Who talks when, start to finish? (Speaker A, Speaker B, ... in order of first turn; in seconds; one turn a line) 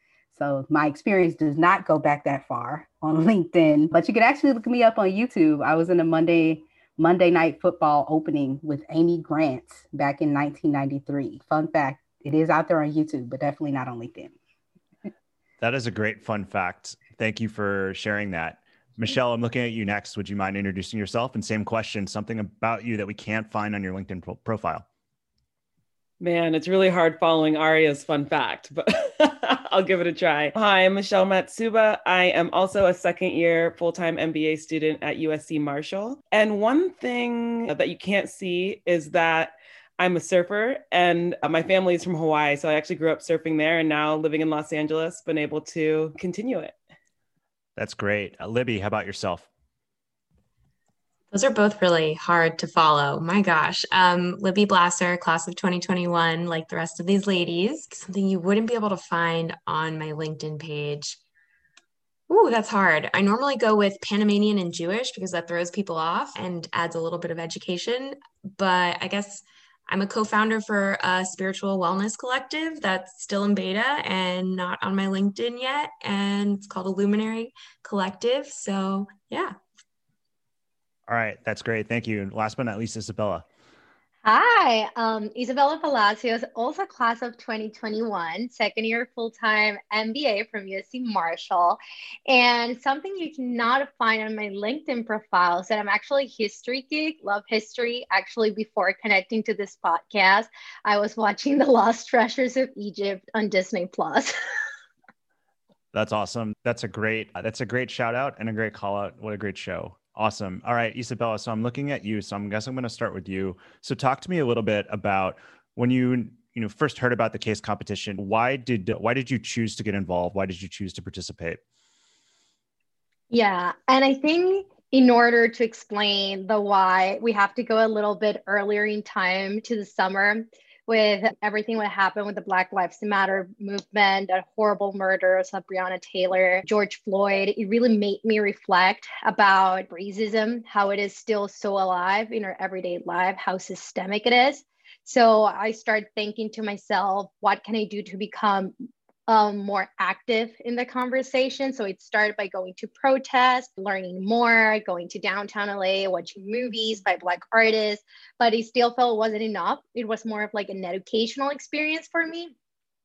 Speaker A: 0.3-14.3
Speaker B: 15.6-24.9
Speaker C: 26.2-46.8
Speaker B: 47.8-49.5
Speaker D: 51.3-61.2
Speaker D: 62.3-79.5
Speaker B: 81.1-83.5
Speaker E: 84.2-104.3
Speaker B: 105.9-121.6
Speaker E: 123.3-148.7
Speaker E: 149.3-162.5